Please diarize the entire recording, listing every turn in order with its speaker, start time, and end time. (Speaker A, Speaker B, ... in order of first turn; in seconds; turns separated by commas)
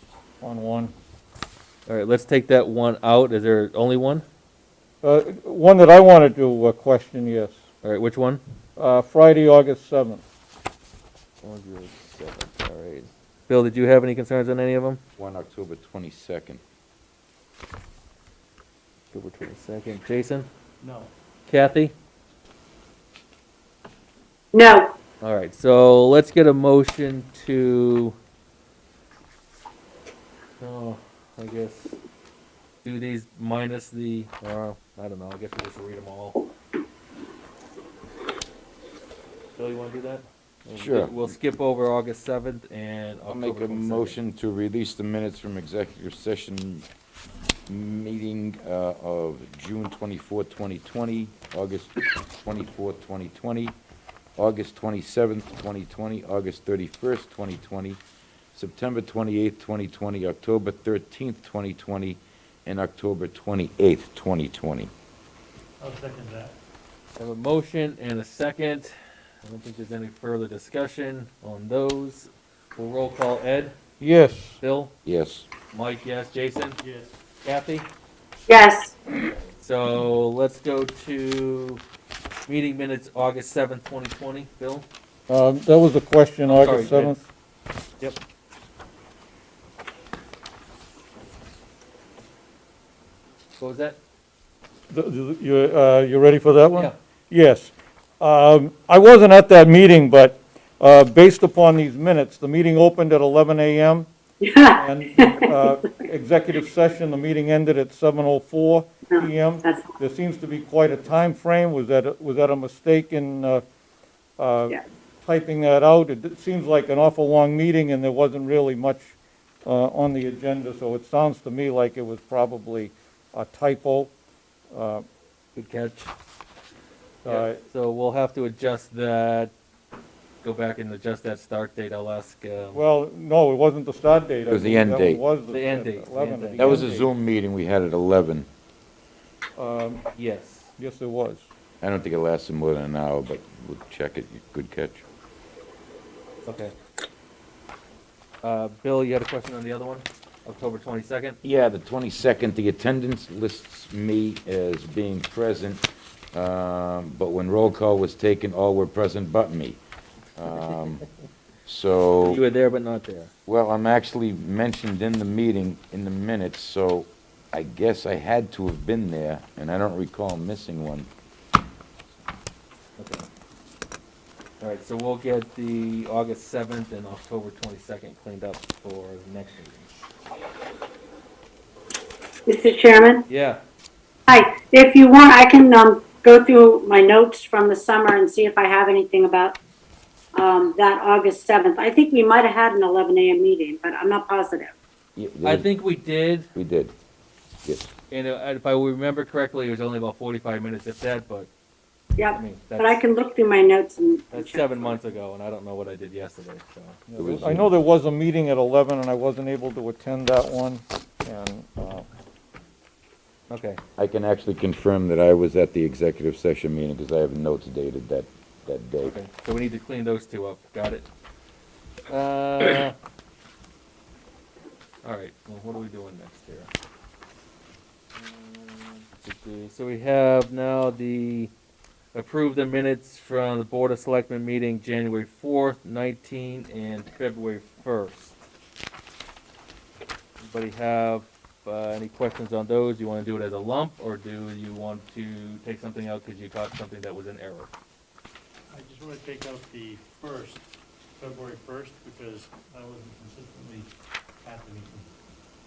Speaker A: 0.4-0.9, Speaker B: 1.9-4.2, Speaker A: 5.0-7.6, Speaker B: 7.8-8.4, Speaker A: 8.8-10.2, Speaker B: 11.4-15.0, Speaker C: 15.2-16.6, Speaker B: 19.1-20.5, Speaker D: 20.8-21.1, Speaker B: 21.5-21.9, Speaker E: 24.5-24.9, Speaker B: 25.2-28.2, Speaker B: 30.6-32.0, Speaker B: 32.8-36.5, Speaker B: 39.6-44.2, Speaker C: 40.7-41.3, Speaker C: 43.3-46.9, Speaker C: 47.7-53.8, Speaker C: 54.4-58.0, Speaker C: 58.5-64.9, Speaker D: 65.8-66.6, Speaker B: 67.2-73.7, Speaker A: 74.0-74.6, Speaker B: 74.6-74.9, Speaker C: 75.1-75.5, Speaker B: 75.7-76.8, Speaker D: 76.8-77.2, Speaker B: 77.4-77.9, Speaker E: 78.5-79.0, Speaker B: 79.6-81.8, Speaker B: 82.5-84.9, Speaker A: 85.3-87.3, Speaker B: 86.5-87.2, Speaker B: 93.6-94.0, Speaker A: 94.9-104.1, Speaker E: 104.4-105.7, Speaker A: 104.8-113.6, Speaker E: 109.1-110.0, Speaker A: 114.4-124.1, Speaker A: 124.7-125.0, Speaker B: 125.6-126.1, Speaker A: 127.2-127.6, Speaker B: 127.3-129.5, Speaker B: 130.4-132.8, Speaker A: 132.8-136.9, Speaker C: 134.5-135.2, Speaker B: 135.5-137.1, Speaker C: 136.6-138.5, Speaker A: 139.6-140.1, Speaker B: 140.2-140.7, Speaker A: 140.8-141.4, Speaker C: 141.8-145.1, Speaker B: 146.4-146.7, Speaker B: 148.4-151.4, Speaker C: 151.4-159.8, Speaker C: 160.4-161.0, Speaker C: 161.7-162.4, Speaker B: 162.2-163.3, Speaker C: 163.5-171.1, Speaker B: 173.0-173.3, Speaker B: 174.6-179.9, Speaker E: 182.5-183.2, Speaker B: 183.3-183.6, Speaker E: 184.3-189.6, Speaker E: 190.3-194.7, Speaker C: 195.2-195.7, Speaker B: 195.4-196.5, Speaker C: 196.5-196.9, Speaker C: 197.6-197.9, Speaker B: 198.1-201.5, Speaker E: 202.2-205.0, Speaker B: 202.3-203.0, Speaker B: 204.3-207.0, Speaker A: 207.1-212.1, Speaker C: 207.2-207.7, Speaker B: 213.5-213.8, Speaker C: 214.0-219.2, Speaker B: 219.0-221.1, Speaker B: 222.1-222.9, Speaker B: 225.0-226.7, Speaker B: 228.2-231.5, Speaker B: 232.1-238.4, Speaker B: 240.4-247.7, Speaker D: 248.7-250.7, Speaker D: 251.2-253.9, Speaker D: 254.4-255.1